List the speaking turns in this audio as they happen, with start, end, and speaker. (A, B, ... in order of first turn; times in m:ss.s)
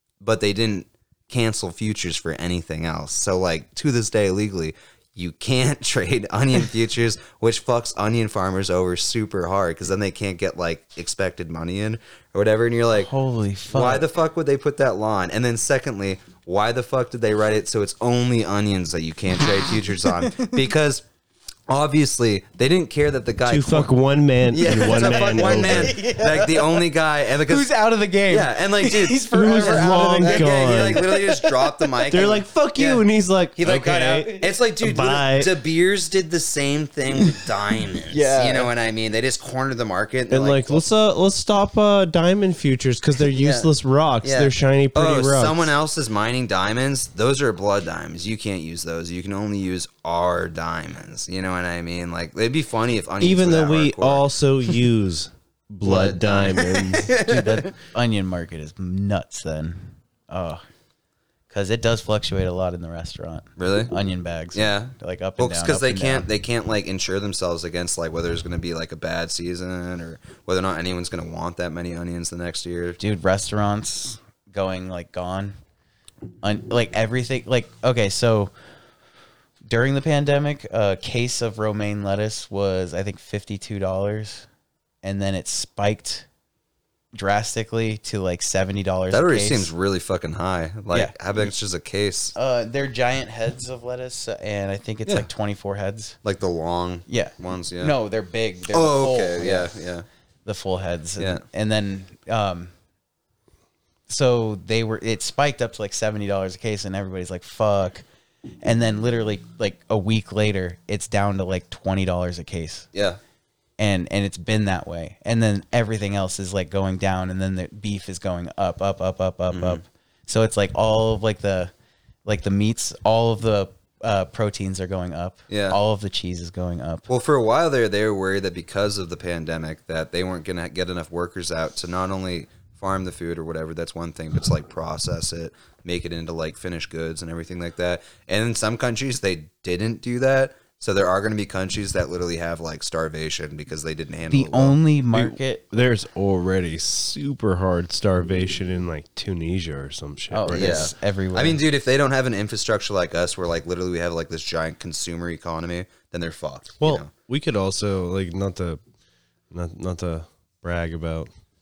0:00.2-0:13.1 A
0:13.0-0:14.1 B
0:13.7-0:21.0 A
0:20.0-0:20.6 B
0:21.7-0:23.9 A
0:23.5-0:26.0 C
0:24.5-0:27.8 A
0:24.7-0:26.9 B
0:27.5-0:32.1 B
0:28.3-0:33.0 A
0:29.3-0:31.1 C
0:32.1-0:35.6 C
0:33.6-0:40.8 A
0:38.1-0:38.7 B
0:40.3-0:45.7 C
0:43.2-0:43.7 A
0:44.2-0:54.3 A
0:53.2-0:57.2 C
0:55.8-0:57.7 A
0:57.2-1:00.6 B
1:01.5-1:06.3 B
1:03.6-1:03.9 A
1:04.5-1:13.0 A
1:13.0-1:15.6 B
1:16.4-1:18.5 B
1:19.6-1:24.5 B
1:25.0-1:26.3 B
1:27.1-1:29.7 B
1:29.1-1:32.3 A
1:32.4-1:36.2 B
1:36.2-1:38.0 A
1:37.1-1:39.8 B
1:38.7-1:40.0 A
1:40.4-1:42.7 B
1:44.1-1:48.0 B
1:48.6-1:52.9 B
1:52.9-1:53.2 A
1:53.8-2:01.7 B
1:59.5-1:59.8 A
2:02.2-2:07.1 B
2:05.5-2:05.8 A
2:07.1-2:24.8 A
2:24.3-2:25.6 B
2:25.1-2:30.9 C
2:30.3-2:31.6 B
2:30.5-2:37.1 A
2:36.8-2:38.8 C
2:39.5-2:41.3 C